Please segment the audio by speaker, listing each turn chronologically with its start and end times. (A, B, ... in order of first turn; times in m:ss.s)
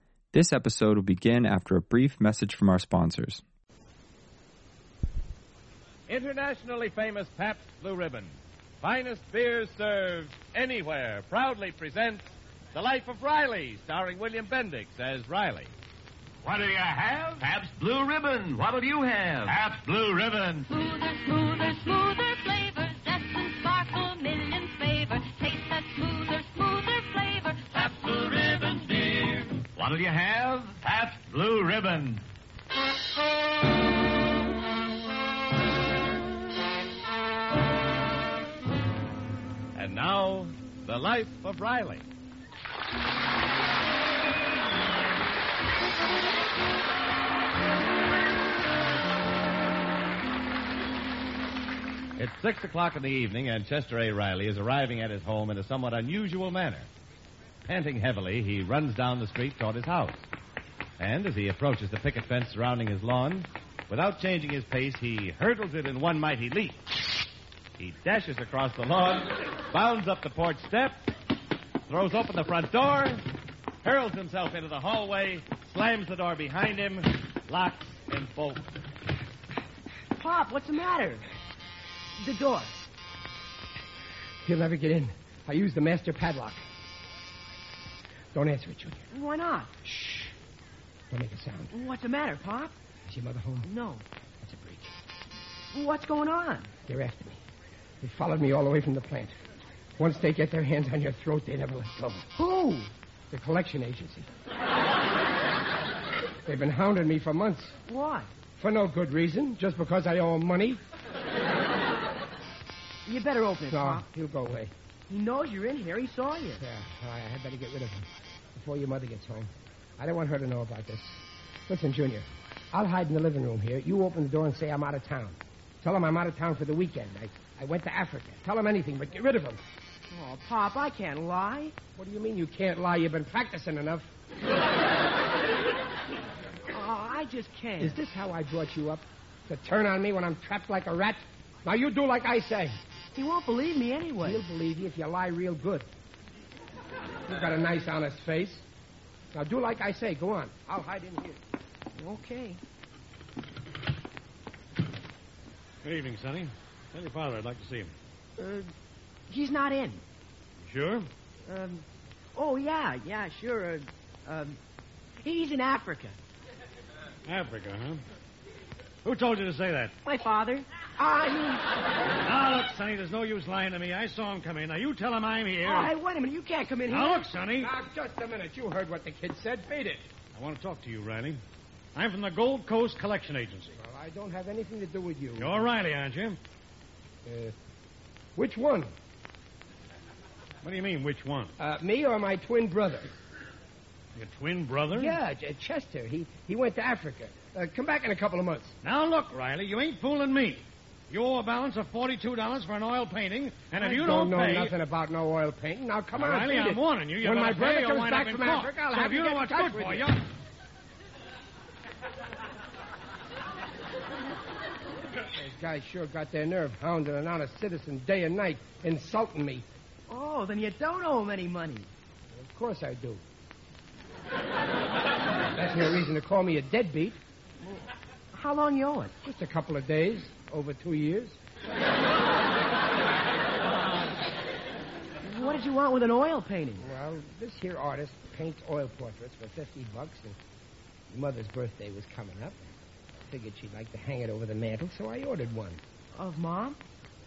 0:00.3-0:03.4 A
0:06.1-0:15.7 B
0:16.4-0:20.7 C
0:20.7-0:29.6 D
0:29.7-0:32.2 C
0:39.7-0:42.1 B
0:52.2-0:56.9 B
0:57.7-1:00.3 B
1:01.0-1:06.8 B
1:07.8-1:11.0 B
1:11.9-1:13.3 B
1:13.8-1:18.7 B
1:20.1-1:21.2 E
1:22.2-1:22.7 E
1:24.4-1:26.6 F
1:28.3-1:29.1 F
1:29.1-1:29.8 E
1:29.8-1:30.3 F
1:31.1-1:31.7 F
1:31.7-1:32.7 E
1:33.0-1:33.7 F
1:33.6-1:34.0 E
1:34.4-1:34.9 F
1:35.7-1:36.7 E
1:36.8-1:37.4 F
1:38.0-1:39.4 F
1:40.0-1:42.3 F
1:42.3-1:42.9 E
1:43.3-1:44.3 F
1:46.4-1:47.8 F
1:47.9-1:48.3 E
1:48.6-1:50.8 F
1:53.0-1:54.0 E
1:53.7-1:54.7 F
1:55.1-1:56.6 E
1:56.6-2:09.6 F
2:10.1-2:11.8 E
2:12.0-2:14.1 F
2:16.7-2:18.0 E
2:17.8-2:22.8 F
2:23.1-2:24.4 E
2:24.2-2:25.9 F
2:27.2-2:28.6 F
2:29.3-2:31.4 F
2:32.0-2:32.6 E
2:35.8-2:37.9 G
2:38.4-2:38.7 E
2:39.3-2:40.0 E
2:40.6-2:41.1 G
2:41.5-2:44.6 E
2:45.2-2:46.2 E
2:47.2-2:48.0 G
2:49.0-2:49.9 G
2:50.0-2:51.8 E
2:52.2-2:55.9 G
2:55.6-2:57.4 E
2:56.9-2:57.7 G
2:57.5-3:00.1 F
3:00.3-3:01.4 G
3:01.9-3:03.8 G
3:03.8-3:05.7 F
3:05.4-3:06.4 G
3:07.2-3:07.5 F
3:08.4-3:08.9 F
3:10.6-3:11.5 G
3:11.6-3:13.1 F
3:14.2-3:15.2 G
3:14.9-3:18.8 F
3:18.8-3:24.7 G
3:23.8-3:30.2 F
3:26.2-3:30.2 G
3:35.3-3:39.7 F
3:40.1-3:41.9 E
3:42.3-3:43.2 F
3:45.5-3:47.2 F
3:48.3-3:49.1 E
3:49.2-3:51.4 F
3:55.2-3:56.8 E
3:56.8-4:00.4 F
4:01.1-4:02.7 F
4:03.3-4:05.8 F
4:06.1-4:06.8 E